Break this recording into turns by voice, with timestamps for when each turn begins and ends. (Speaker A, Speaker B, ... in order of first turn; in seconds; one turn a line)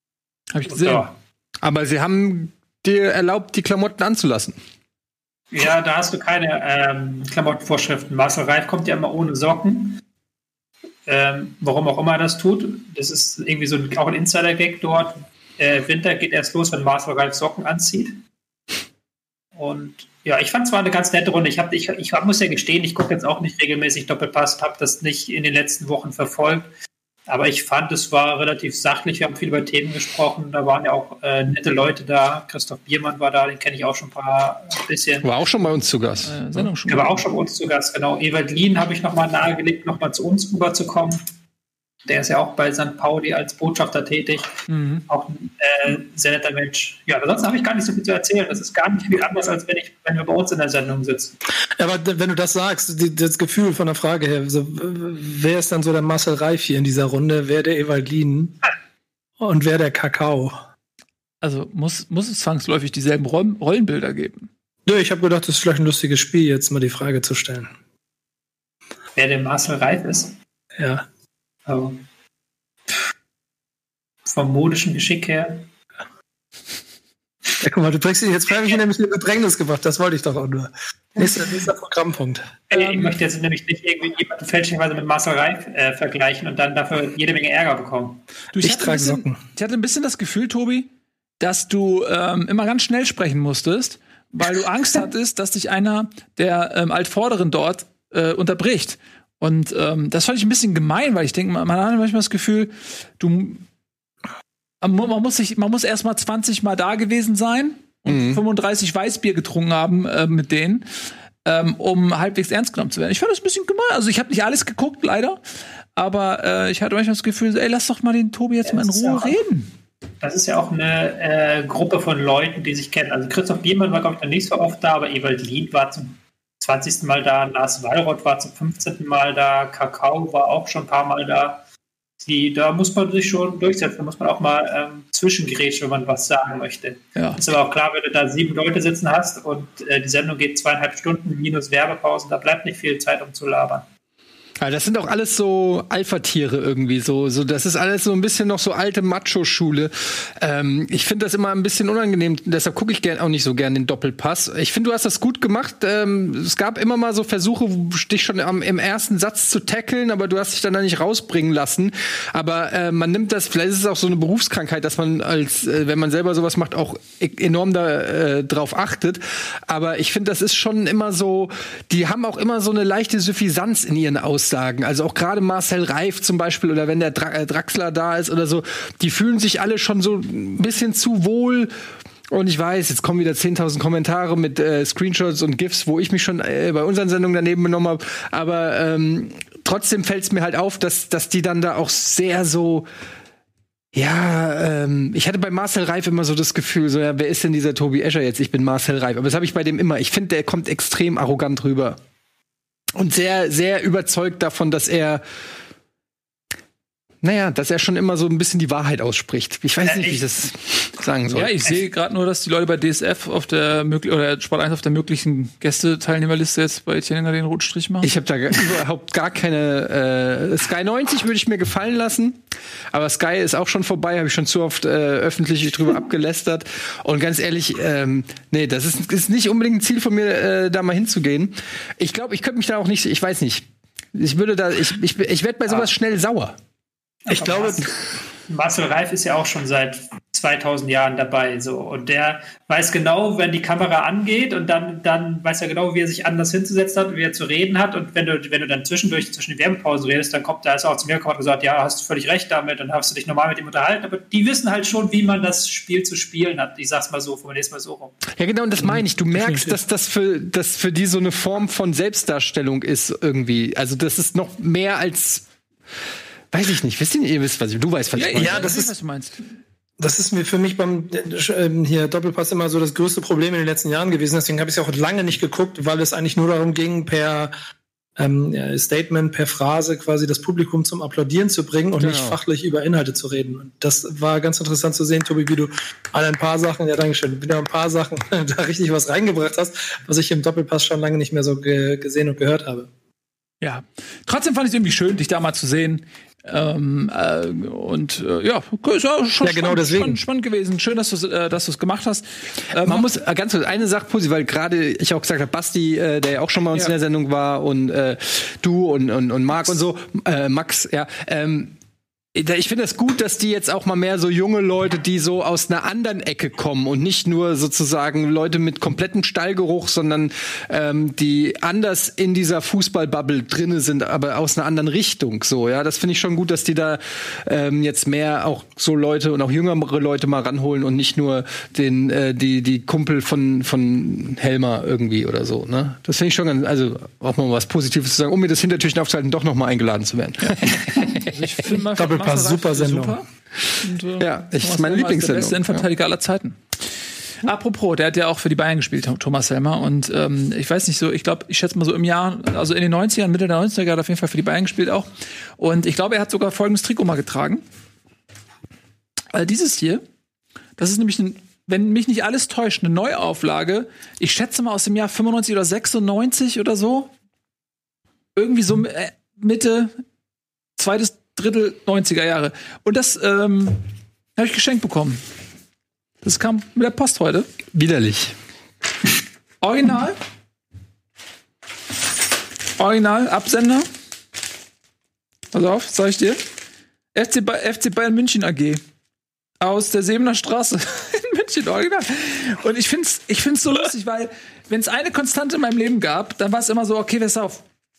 Speaker A: 0.5-1.1
Speaker B: 0.7-1.1
Speaker C: 1.6-4.6
Speaker B: 5.5-10.0
Speaker B: 11.1-18.2
Speaker B: 19.6-26.7
Speaker B: 27.3-35.3
Speaker C: 35.2-36.7
Speaker A: 36.2-37.2
Speaker B: 36.9-41.2
Speaker B: 42.1-44.5
Speaker A: 44.7-45.1
Speaker B: 45.1-51.4
Speaker D: 51.8-58.5
Speaker D: 59.4-60.6
Speaker A: 61.4-64.5
Speaker D: 64.9-67.7
Speaker B: 69.2-70.3
Speaker D: 70.8-71.0
Speaker B: 71.7-72.0
Speaker B: 74.3-75.7
Speaker D: 77.6-83.1
Speaker B: 82.7-88.2
Speaker A: 88.5-90.9
Speaker D: 88.6-89.4
Speaker A: 91.4-103.7
Speaker A: 104.8-110.8
Speaker C: 108.1-108.4
Speaker A: 111.5-115.4
Speaker A: 116.0-119.7
Speaker B: 118.7-119.4
Speaker B: 120.2-131.6
Speaker B: 132.2-143.9
Speaker A: 137.2-137.4
Speaker C: 144.6-181.7
Speaker C: 182.3-192.9
Speaker C: 193.9-202.0
Speaker C: 203.0-205.2
Speaker C: 207.2-211.6
Speaker B: 209.8-210.3
Speaker A: 211.3-218.1
Speaker C: 218.0-236.6
Speaker B: 237.3-237.9
Speaker D: 237.3-237.9
Speaker B: 238.5-258.2
Speaker C: 258.3-265.5
Speaker C: 266.5-268.8
Speaker A: 268.1-269.4
Speaker D: 268.4-268.9
Speaker D: 270.0-277.5
Speaker D: 278.2-292.9
Speaker C: 282.0-282.4
Speaker A: 293.6-303.1
Speaker D: 299.4-300.2
Speaker C: 302.7-311.8
Speaker C: 312.3-341.7
Speaker A: 340.4-343.3
Speaker D: 341.9-343.2
Speaker A: 343.8-346.8
Speaker C: 344.2-345.9
Speaker A: 347.4-357.6
Speaker A: 359.3-360.0
Speaker A: 360.8-367.1
Speaker A: 368.4-369.9
Speaker A: 370.8-373.8
Speaker A: 374.4-375.2
Speaker A: 376.2-377.5
Speaker C: 377.7-378.4
Speaker A: 379.6-380.2
Speaker A: 382.8-383.9
Speaker A: 385.5-386.4
Speaker A: 387.1-388.8
Speaker A: 389.6-397.6